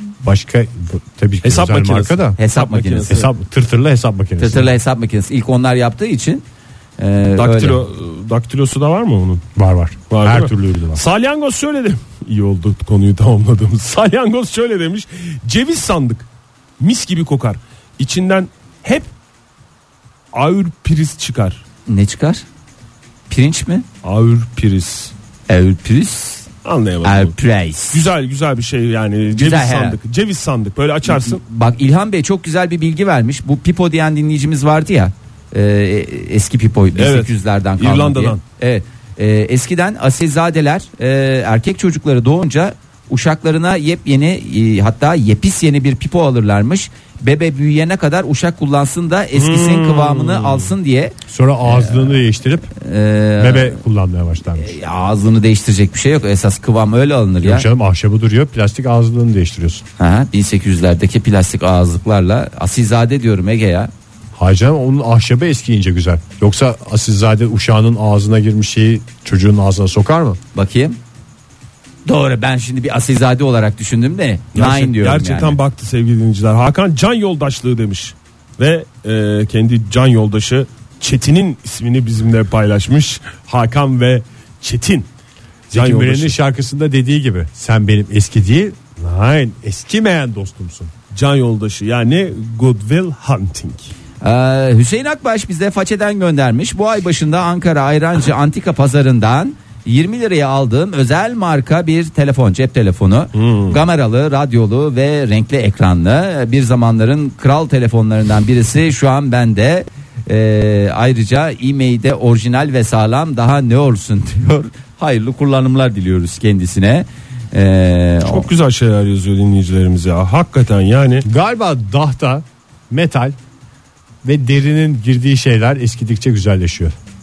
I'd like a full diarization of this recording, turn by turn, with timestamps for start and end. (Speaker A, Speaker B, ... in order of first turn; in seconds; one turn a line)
Speaker A: 0.2-2.4
Speaker B: 1.4-3.3
Speaker C: 2.4-3.2
Speaker A: 3.1-4.7
Speaker C: 4.4-6.5
Speaker C: 7.0-7.8
Speaker B: 7.4-9.4
Speaker A: 9.6-11.0
Speaker B: 10.1-16.3
Speaker B: 16.8-19.1
Speaker B: 20.3-21.6
Speaker C: 21.9-22.4
Speaker C: 23.3-23.9
Speaker B: 24.0-25.1
Speaker C: 25.5-26.5
Speaker B: 26.6-27.4
Speaker C: 27.0-28.0
Speaker B: 27.9-31.4
Speaker C: 29.4-30.0
Speaker C: 31.1-52.2
Speaker B: 37.0-38.4
Speaker B: 49.3-50.7
Speaker A: 51.3-52.7
Speaker C: 52.8-53.8
Speaker A: 53.4-54.7
Speaker C: 54.6-57.7
Speaker A: 57.4-59.8
Speaker C: 60.0-63.9
Speaker A: 64.4-70.4
Speaker C: 70.5-71.0
Speaker C: 72.1-75.6
Speaker B: 74.5-85.1
Speaker A: 85.7-90.9
Speaker B: 85.7-86.3
Speaker B: 91.1-93.9
Speaker C: 94.2-118.5
Speaker B: 103.3-103.8
Speaker B: 118.2-121.2
Speaker A: 121.2-123.4
Speaker A: 124.2-127.0